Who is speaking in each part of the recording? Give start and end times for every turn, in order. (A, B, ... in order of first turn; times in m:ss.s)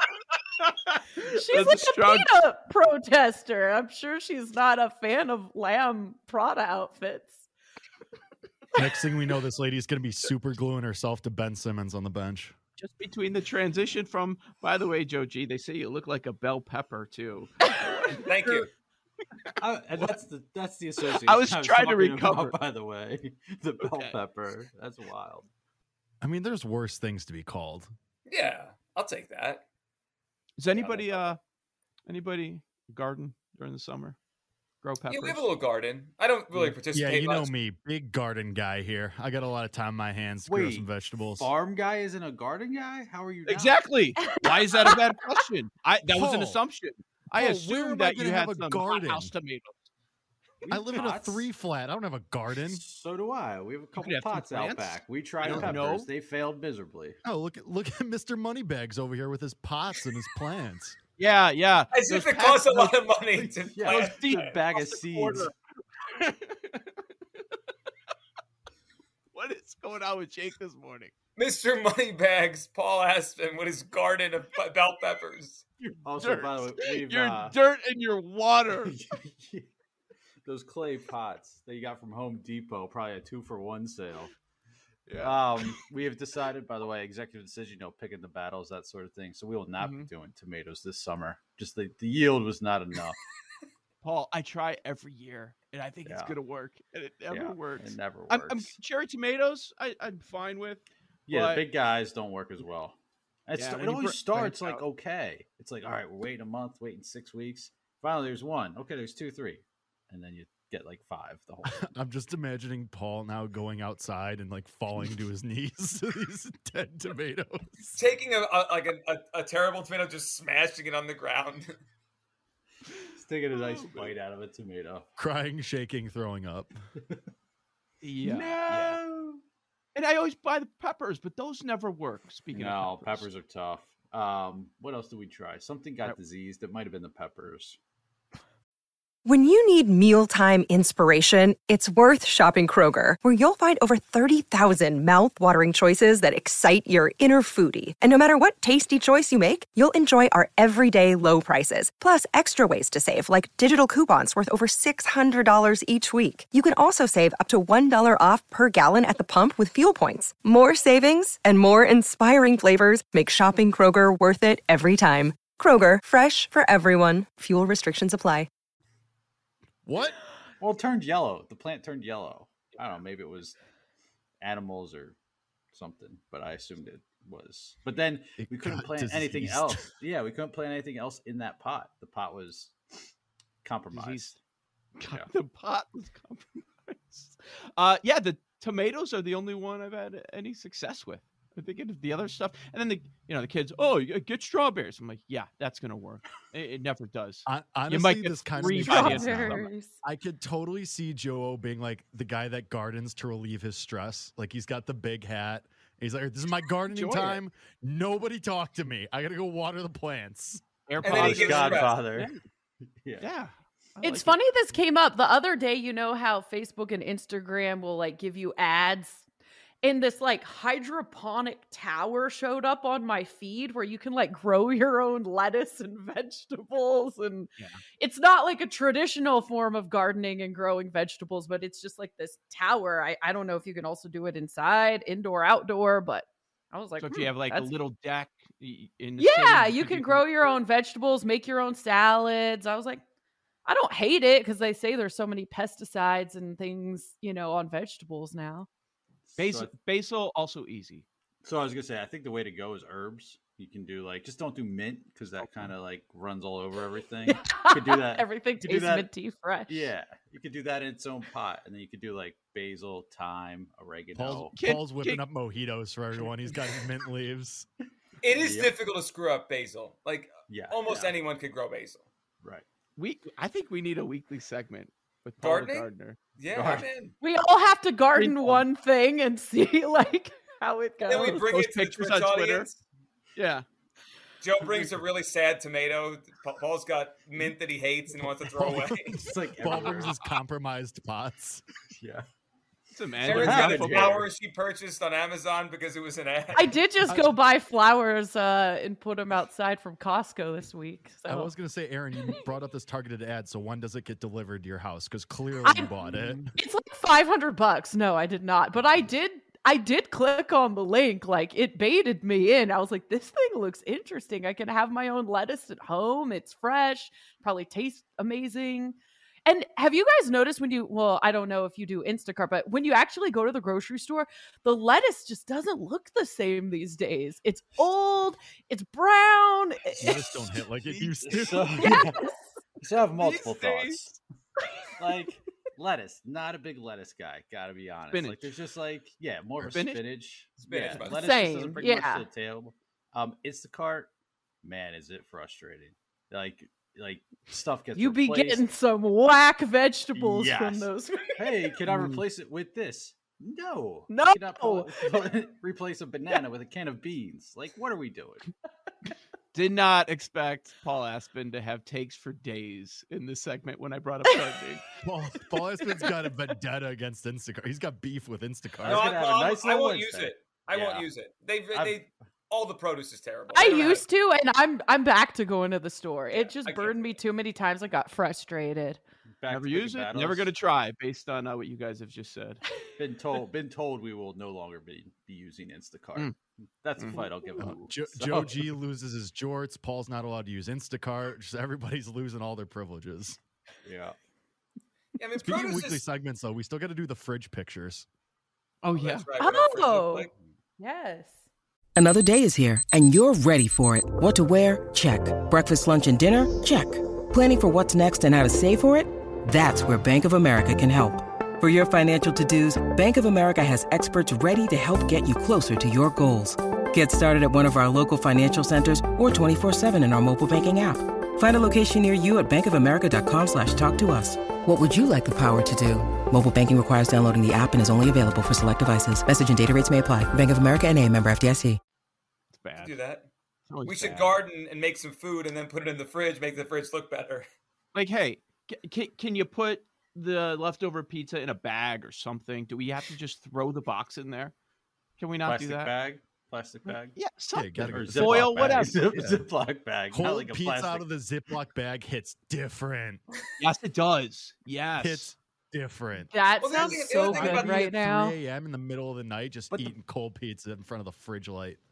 0:00.6-0:02.4 A
0:01.2-0:07.5 B
0:08.7-0:12.5 C
0:12.8-0:18.6 A
0:18.1-0:18.7 D
0:19.5-0:20.1 A
0:19.6-0:25.5 E
0:21.1-0:22.6 A
0:23.8-0:24.2 A
0:26.2-0:27.9 C
0:28.3-0:29.6 D
0:30.6-0:31.4 A
0:30.7-0:31.4 D
0:32.1-0:34.2 A
0:34.8-0:35.5 A
0:35.1-0:37.5 D
0:36.9-0:41.5 C
0:40.4-0:43.8 E
0:43.4-0:49.8 A
0:46.1-0:46.6 C
0:47.3-0:49.3 C
0:50.6-0:51.0 A
0:50.7-0:51.5 E
0:50.7-0:52.8 C
0:52.7-0:57.2 E
0:54.0-0:56.1 A
0:57.2-1:01.0 C
1:01.2-1:03.0 A
1:01.9-1:04.6 D
1:03.3-1:05.5 E
1:04.7-1:06.9 A
1:09.3-1:11.1 A
1:11.4-1:15.6 D
1:15.8-1:18.9 A
1:16.0-1:17.5 E
1:18.7-1:19.7 E
1:20.4-1:24.3 E
1:25.1-1:25.7 A
1:25.2-1:33.2 E
1:29.8-1:30.1 A
1:34.0-1:41.7 A
1:36.0-1:36.3 E
1:37.3-1:38.7 E
1:41.3-1:51.8 E
1:43.5-1:44.8 A
1:51.6-1:58.0 C
1:58.0-2:01.7 D
2:03.2-2:05.0 E
2:03.5-2:04.1 A
2:05.2-2:06.7 C
2:08.0-2:09.0 A
2:08.2-2:09.4 E
2:09.9-2:13.3 A
2:12.5-2:17.8 E
2:19.2-2:48.5 F
2:49.8-2:50.2 C
2:50.6-2:53.6 E
2:54.4-2:55.2 E
2:55.7-3:02.7 E
2:58.4-2:59.9 C
3:03.6-3:04.4 E
3:03.9-3:04.4 A
3:05.0-3:19.7 A
3:17.4-3:30.6 C
3:18.8-3:19.9 B
3:26.9-3:27.4 A
3:30.9-3:32.4 A
3:31.0-3:32.0 D
3:31.0-3:32.3 E
3:33.0-3:33.3 E
3:33.2-3:34.4 A
3:34.0-3:39.2 B
3:39.8-3:57.7 B
3:57.0-4:00.5 A
3:59.2-4:03.0 B
4:03.6-4:08.7 B
4:09.3-4:09.7 E
4:09.4-4:11.0 A
4:11.4-4:19.1 E
4:15.4-4:15.7 A
4:17.3-4:19.9 B
4:19.7-4:24.5 E
4:24.1-4:27.7 C
4:24.5-4:25.2 A
4:28.2-4:32.0 D
4:28.3-4:28.7 E
4:30.5-4:31.2 E
4:33.0-4:36.2 A
4:35.4-4:37.1 D
4:36.5-4:36.9 E
4:37.2-4:41.4 B
4:38.1-4:38.6 A
4:41.0-4:42.8 D
4:41.4-4:42.7 A
4:43.4-4:43.6 A
4:44.4-4:49.2 D
4:48.2-4:51.6 C
4:49.2-4:50.2 E
4:52.0-4:52.2 E
4:52.9-4:54.2 A
4:53.2-4:56.8 D
4:53.3-4:54.3 E
4:56.5-5:01.5 B
4:57.1-4:57.4 C
5:01.3-5:06.5 C
5:05.6-5:05.9 B
5:06.5-5:30.2 B
5:30.0-5:32.0 C
5:30.9-5:32.3 E
5:31.8-5:32.4 B
5:32.8-5:34.1 E
5:33.2-5:34.2 A
5:35.0-5:44.1 E
5:38.1-5:38.5 A
5:39.6-5:40.0 A
5:40.6-5:41.3 D
5:41.0-5:42.2 B
5:44.6-5:48.6 E
5:48.0-5:51.7 B
5:50.1-5:58.5 E
5:51.9-5:52.2 A
5:54.1-5:55.2 B
5:59.5-6:04.9 A
6:05.0-6:09.1 C
6:05.8-6:06.3 B
6:08.8-6:11.1 E
6:08.8-6:14.0 D
6:11.7-6:12.0 E
6:13.5-6:19.0 B
6:16.4-6:17.0 D
6:19.4-6:20.5 E
6:19.5-6:22.6 A
6:23.0-6:28.7 E
6:27.0-6:27.3 A
6:27.6-6:33.4 C
6:33.8-6:34.1 E
6:35.2-6:36.0 D
6:35.4-6:38.0 C
6:38.8-6:39.3 A
6:38.9-6:40.3 D
6:39.4-6:41.4 B
6:41.9-7:11.8 G
7:12.6-7:13.0 A
7:12.8-7:13.3 D
7:13.7-7:14.4 A
7:13.8-7:17.4 D
7:17.9-7:24.5 A
7:25.2-7:25.9 A
7:25.4-7:27.2 E
7:26.8-7:29.4 A
7:27.5-7:28.9 C
7:27.8-7:31.0 E
7:30.1-7:33.2 C
7:33.6-7:35.3 A
7:35.0-7:41.8 C
7:36.3-7:38.4 B
7:36.6-7:37.8 D